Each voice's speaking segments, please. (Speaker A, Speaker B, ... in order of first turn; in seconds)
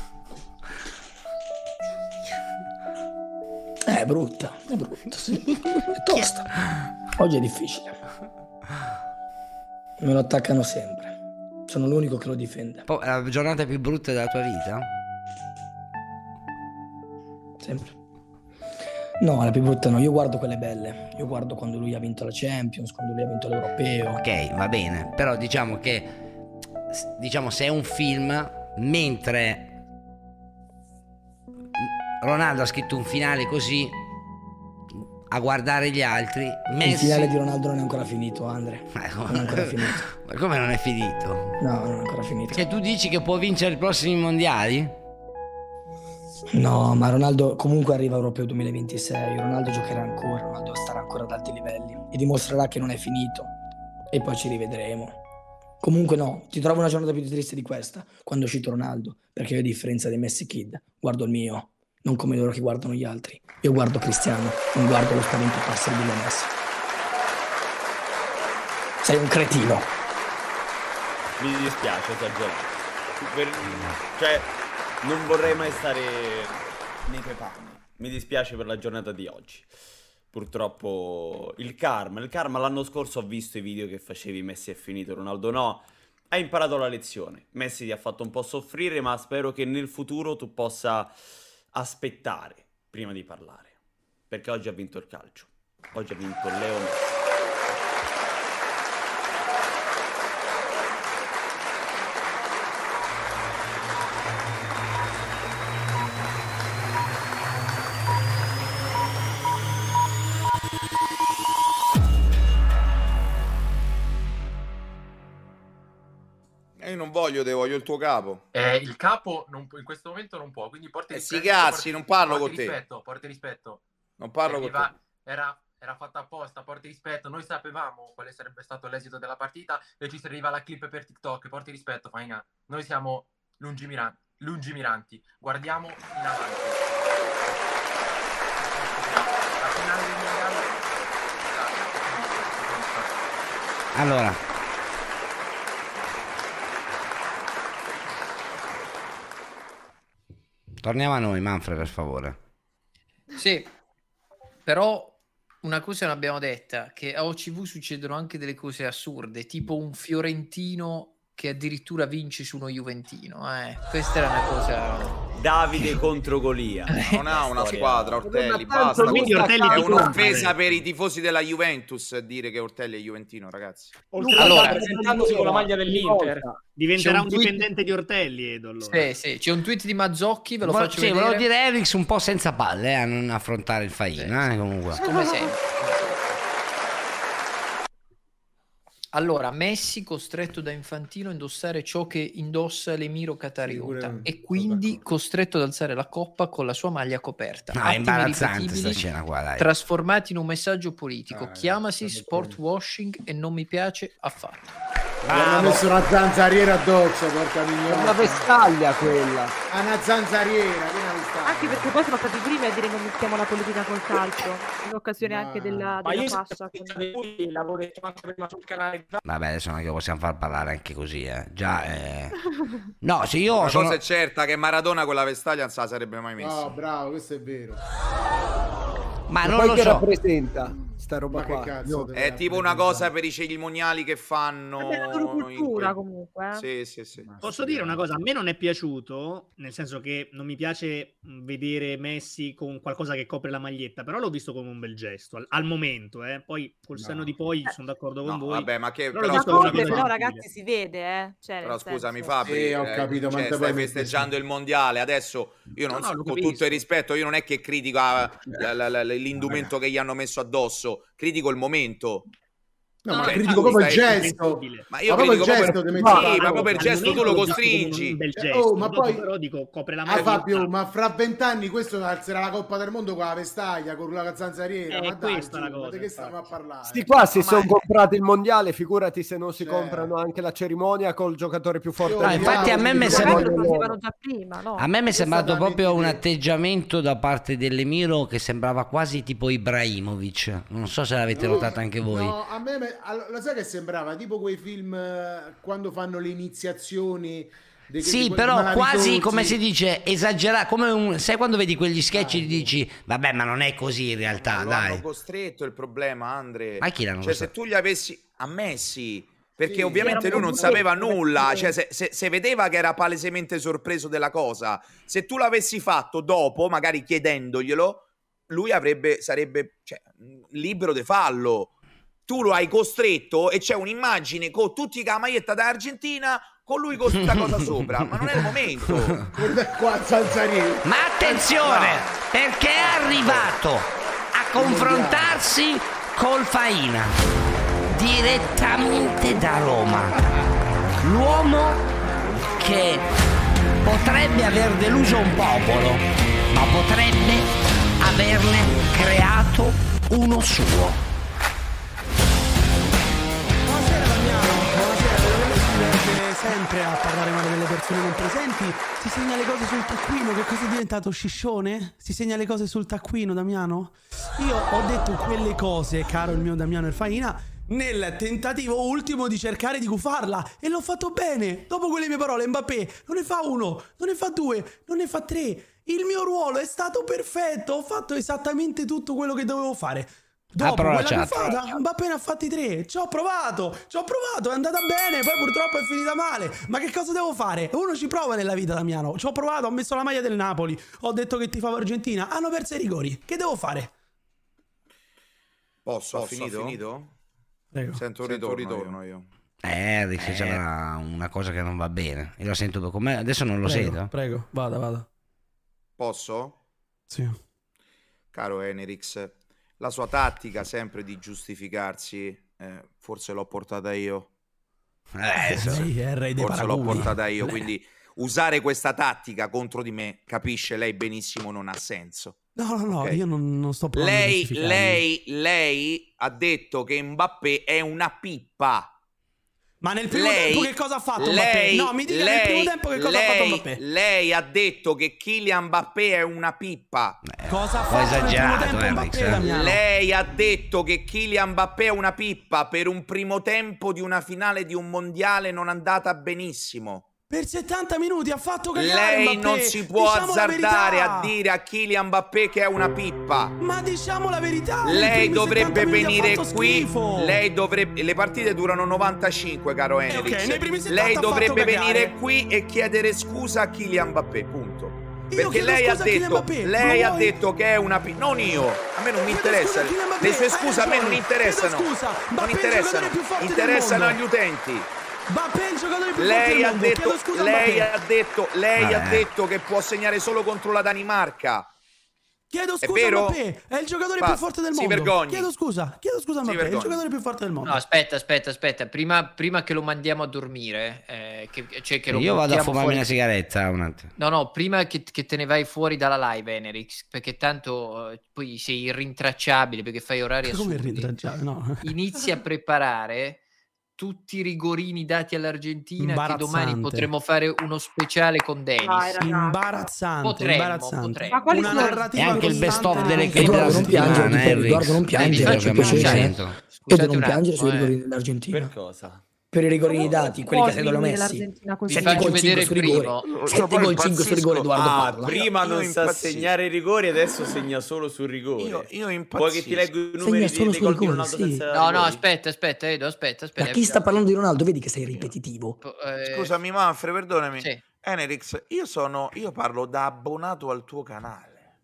Speaker A: 3.9-6.5, 7.2-8.0, 10.0-11.2, 11.7-12.8, 17.6-17.9, 19.2-24.2, 36.7-40.0, 41.6-42.7, 46.5-53.5, 54.1-55.2, 55.8-66.5, 69.0-69.9, 513.3-516.4, 516.9-518.7, 519.5-525.4, 530.2-531.6, 533.6-535.8
Speaker B: 12.9-14.9, 24.1-26.1, 26.9-29.8, 31.8-33.9, 35.3-37.3, 38.9-41.5, 42.5-44.9, 143.9-144.4, 150.8-152.4, 180.6-185.0, 197.7-199.7, 205.2-205.8, 219.2-222.3, 223.0-224.0, 229.3-230.1, 282.2-283.6, 284.8-292.3, 298.0-305.0, 306.8-307.5, 327.1-329.1, 330.8-337.1, 337.9-340.2, 341.0-341.8, 342.6-343.0, 343.8-351.0, 380.6-381.7, 399.6-404.1, 415.1-415.8, 437.2-439.4, 478.8-479.3, 492.1-494.1, 512.1-516.5
Speaker C: 71.4-74.5, 75.0-79.7, 80.3-91.1, 91.7-93.7, 94.3-97.2, 165.3-168.3, 396.1-396.8, 398.3-398.9, 518.5-519.2, 523.6-524.1, 524.8-532.2
Speaker D: 116.8-118.4, 121.1-122.8, 124.2-124.9, 167.0-174.1, 223.5-226.8, 232.1-236.0, 236.5-238.0, 248.2-250.1, 251.6-262.3, 263.1-264.2, 264.9-268.2, 270.1-270.4, 304.3-321.7, 322.3-329.2, 395.8-397.1, 397.9-399.3, 406.0-406.6, 408.3-414.3, 416.4-422.4, 422.9-423.2, 423.9-428.9, 430.1-437.2, 439.3-447.1, 448.7-453.5, 454.8-474.9, 476.1-481.7, 482.8-483.4, 484.2-485.5, 486.4-487.1, 524.9-526.5, 528.6-529.9, 536.2-541.6
Speaker E: 118.5-123.8, 124.4-136.8, 138.6-143.3
Speaker F: 153.3-153.7, 154.7-165.2, 166.9-167.8, 174.4-174.9, 178.8-181.4, 184.1-186.2, 189.1-199.1, 199.6-204.8, 487.6-493.1, 494.2-501.1, 501.8-503.4, 504.0-509.2, 510.2-512.1, 515.1-518.0, 521.9-523.3, 531.7-534.1, 535.8-536.5
Speaker G: 168.2-170.3, 174.2-177.6, 207.9-209.5, 229.4-232.1, 265.9-266.4, 276.9-284.0
Speaker H: 168.9-170.5, 176.7-179.1, 237.3-250.5, 256.1-256.8, 263.1-264.9, 265.5-270.7, 274.9-276.5, 310.0-310.9
Speaker I: 174.1-176.5, 216.0-219.2
Speaker J: 185.0-185.5, 211.4-217.1, 234.8-236.7, 249.3-252.1, 283.0-284.9, 508.8-509.9, 511.3-513.4, 519.9-522.5
Speaker K: 193.7-195.0, 201.3-202.6, 205.3-208.5, 209.7-212.0, 215.2-216.0, 226.4-227.8, 231.3-233.1, 237.2-237.6, 247.0-247.3, 252.4-254.3, 259.4-259.7, 263.0-267.7, 268.4-269.2, 270.1-277.1, 279.6-280.1, 282.0-283.6, 285.1-286.2, 291.3-299.6, 302.1-302.7, 309.6-311.7, 329.3-332.1, 332.8-333.5, 334.5-335.4, 340.1-340.4
Speaker L: 353.6-393.9, 397.7-398.0, 400.2-400.6, 403.6-405.1, 407.1-407.4, 415.3-417.6, 422.6-425.0, 429.8-433.8, 437.5-439.8, 447.3-451.3, 453.6-457.4, 460.1-462.1, 465.3-467.4, 469.2-474.2, 475.3-477.9, 482.5-487.8, 500.4-501.8, 506.0-507.1, 509.2-514.3